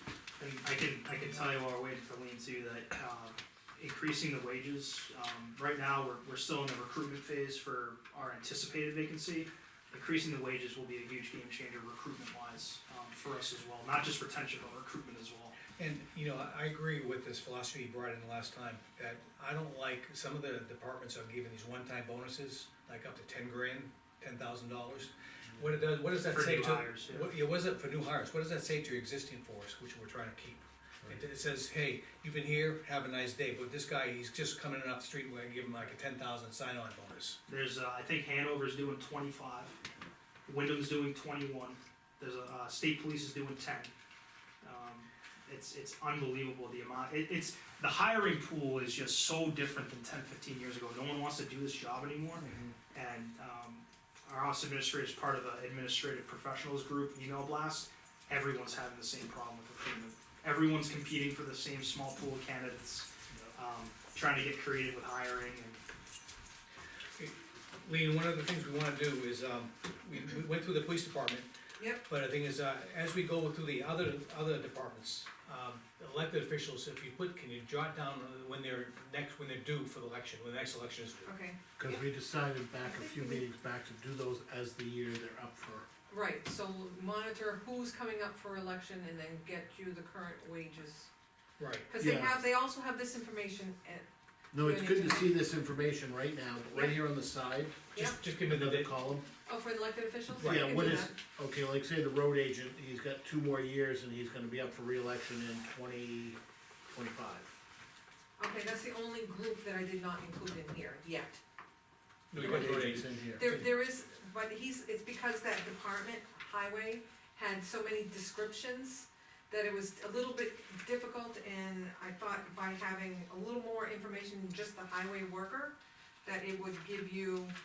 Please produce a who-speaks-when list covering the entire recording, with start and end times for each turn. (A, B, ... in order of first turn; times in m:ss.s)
0:00.4-0:15.6 A
0:15.7-0:37.4 B
0:26.3-0:27.4 A
0:37.5-0:39.8 A
0:40.4-0:43.9 A
0:44.6-1:05.8 A
0:52.4-0:52.7 C
1:07.2-1:11.5 B
1:11.8-1:12.0 D
1:12.1-1:21.3 B
1:21.2-1:22.0 D
1:21.8-1:25.8 C
1:22.8-1:23.4 D
1:26.1-1:31.1 D
1:31.6-1:31.9 B
1:31.8-1:35.3 D
1:32.0-1:32.4 C
1:34.5-1:39.3 C
1:36.7-1:37.0 D
1:37.9-1:38.9 B
1:39.4-1:41.2 D
1:40.4-1:40.7 B
1:40.4-1:46.4 C
1:46.9-1:47.5 C
1:48.4-1:51.4 D
1:52.3-1:53.6 B
1:52.3-1:53.5 C
1:52.4-1:52.8 D
1:53.4-2:07.5 D